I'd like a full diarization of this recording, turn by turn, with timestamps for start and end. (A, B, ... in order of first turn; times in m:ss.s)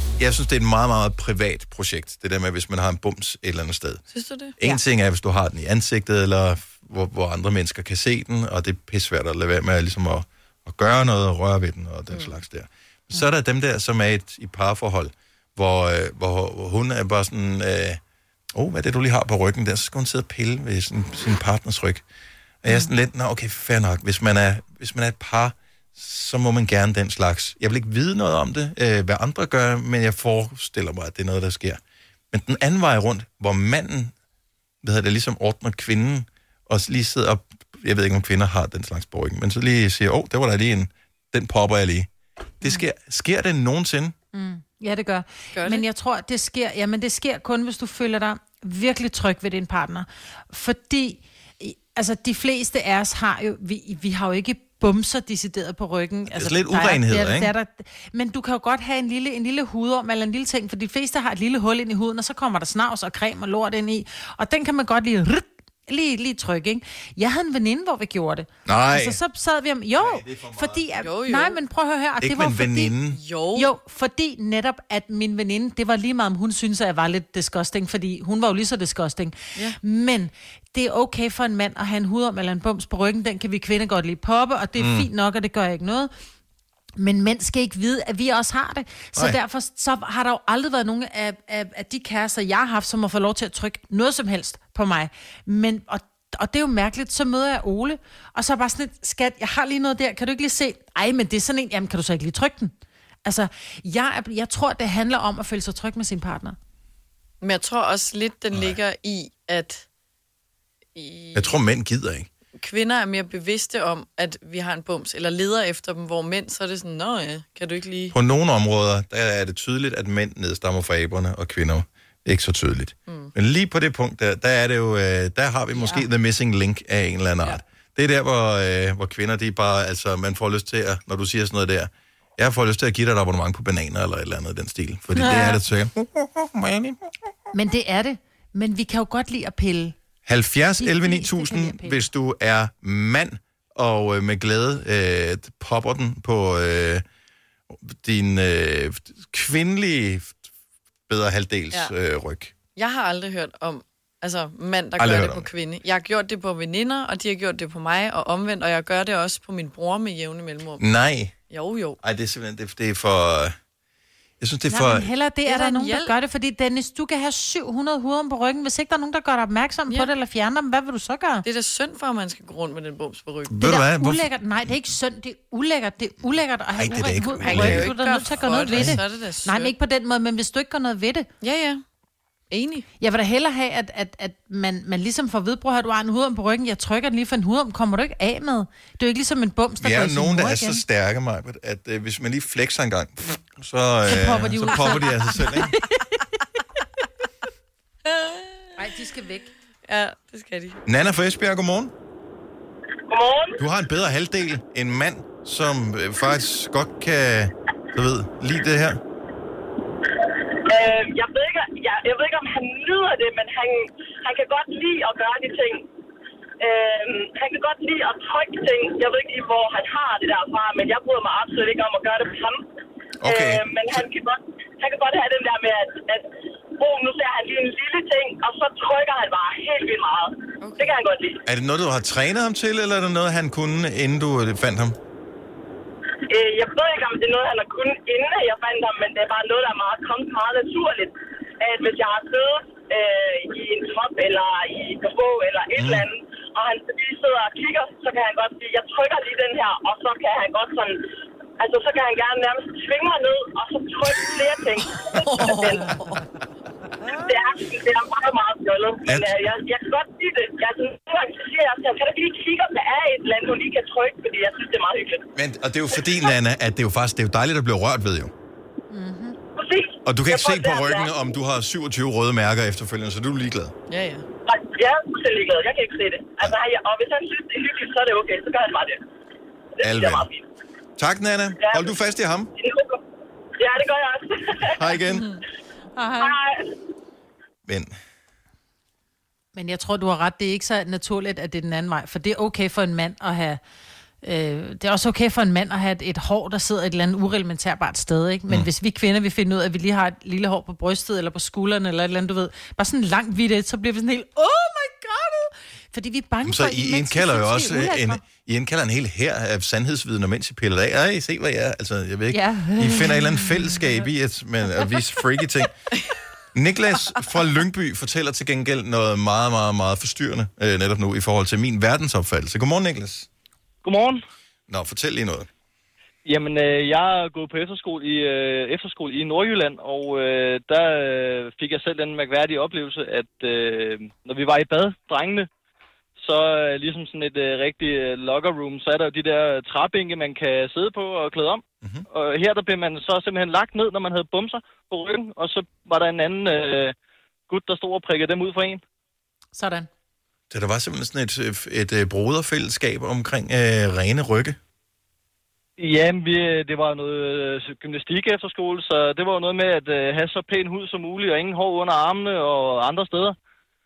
0:00.2-0:04.0 A
0:04.1-0:04.5 B
0:04.6-0:18.0 A
0:12.1-0:12.4 B
0:18.5-0:22.0 A
0:22.6-0:31.8 A
0:32.3-0:34.1 A
0:34.8-0:44.1 A
0:44.3-1:12.9 C
0:45.5-0:45.8 B
0:56.3-0:57.5 A
1:08.6-1:09.2 A
1:09.9-1:10.9 A
1:11.0-1:11.6 B
1:12.2-1:13.2 A
1:13.1-1:13.7 B
1:13.5-1:26.1 C
1:24.8-1:25.1 A
1:27.0-1:42.7 C
1:43.2-1:46.6 C
1:47.4-1:49.8 B
1:48.5-1:48.8 A
1:50.9-1:51.6 B
1:51.3-1:52.3 A
1:52.6-1:58.1 B
1:58.1-2:17.0 A
2:03.1-2:03.3 B
2:05.7-2:06.0 C
2:15.1-2:15.6 B
2:17.5-2:20.0 C
2:20.2-2:27.0 A
2:20.8-2:22.1 C
2:27.8-2:30.4 A
2:31.1-2:32.5 A
2:32.8-2:40.8 B
2:35.0-2:35.5 A
2:40.8-2:41.3 A
2:41.5-2:42.0 B
2:42.0-2:43.6 A
2:44.4-2:45.1 A
2:44.7-2:51.4 C
2:45.4-2:46.2 B
2:51.4-2:53.6 B
2:53.5-2:54.3 A
2:53.6-3:01.3 C
2:56.8-2:59.0 A
2:57.4-2:59.7 B
3:01.4-3:01.8 B
3:02.5-3:02.8 B
3:03.0-3:10.8 C
3:09.8-3:15.7 A
3:14.0-3:16.4 C
3:18.0-3:18.8 B
3:18.8-3:19.5 C
3:19.8-3:20.8 B
3:20.8-3:21.9 A
3:23.1-3:23.6 D
3:23.6-3:29.0 A
3:30.7-3:35.9 D
3:36.6-3:42.6 D
3:43.2-3:44.0 A
3:43.2-3:51.4 D
3:50.6-3:51.0 B
3:51.4-3:55.0 A
3:56.3-4:11.0 D
4:05.8-4:06.0 A
4:11.6-4:16.0 D
4:14.9-4:16.3 B
4:17.1-4:25.3 D
4:19.0-4:19.3 A
4:25.4-4:28.3 A
4:28.9-4:29.4 C
4:29.6-4:31.2 D
4:30.0-4:33.7 A
4:33.9-4:34.2 B
4:34.5-4:39.0 D
4:39.8-4:40.4 D
4:39.8-4:40.3 A
4:41.0-4:42.5 A
4:41.6-4:41.9 D
4:42.6-4:43.0 D
4:43.6-4:44.7 D
4:44.6-4:45.3 A
4:45.1-4:45.4 B
4:45.9-4:46.4 C
4:46.2-4:46.7 D
4:47.6-4:47.9 A
4:49.5-4:53.6 C
4:54.2-5:08.2 C
5:06.4-5:15.7 A
5:12.3-5:14.0 C
5:16.5-5:23.3 A
5:23.8-5:24.2 E
5:24.7-5:25.5 A
5:26.2-5:35.5 E
5:36.2-5:46.9 E
5:47.5-5:48.8 E
5:49.5-5:49.9 C
5:50.5-5:54.6 A
5:55.8-6:03.4 E